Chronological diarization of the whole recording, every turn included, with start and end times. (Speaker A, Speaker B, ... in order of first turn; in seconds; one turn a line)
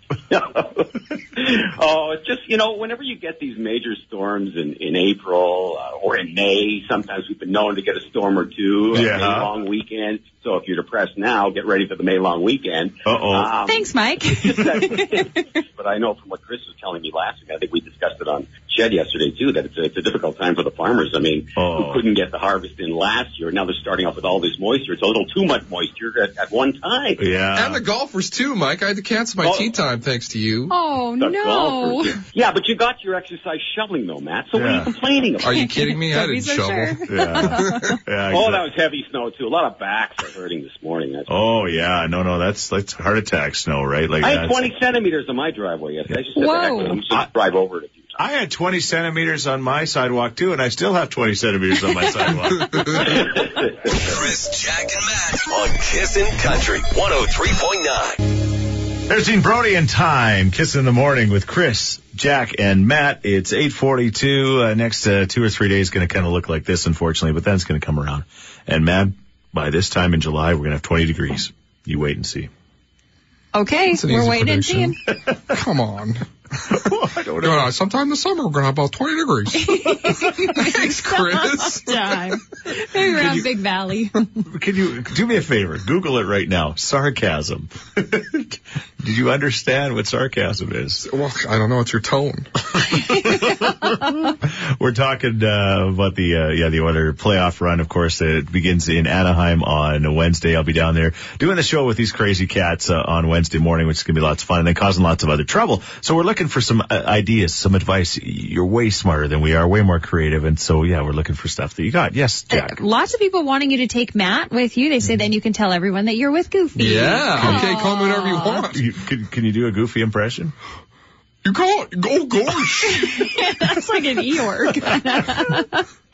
Speaker A: 0.3-27.2
Speaker B: 8.9-9.5
Speaker B: 13.1-13.5
Speaker C: 13.6-15.5
Speaker B: 21.6-22.0
Speaker B: 27.2-27.8
Speaker D: 27.6-30.7
Speaker A: 29.4-29.7
Speaker C: 30.7-32.2
Speaker A: 31.2-35.6
Speaker B: 34.5-34.9
Speaker D: 35.4-37.8
Speaker C: 35.5-38.0
Speaker B: 37.1-38.7
Speaker A: 38.3-41.3
Speaker B: 41.3-44.7
Speaker A: 44.2-48.2
Speaker C: 46.4-47.0
Speaker B: 48.2-53.3
Speaker A: 53.0-53.9
Speaker E: 53.9-58.2
Speaker B: 59.1-72.5
Speaker C: 73.5-75.0
Speaker D: 73.9-74.9
Speaker D: 75.5-76.8
Speaker B: 76.7-77.7
Speaker D: 77.4-82.1
Speaker C: 79.5-84.3
Speaker B: 84.5-91.0
Speaker D: 91.0-92.5
Speaker B: 92.8-112.8
Speaker C: 93.1-93.7
Speaker C: 112.5-118.7
Speaker D: 116.8-118.8
Speaker B: 117.4-117.7
Speaker B: 118.7-120.5
Speaker D: 121.4-123.1
Speaker C: 122.8-125.9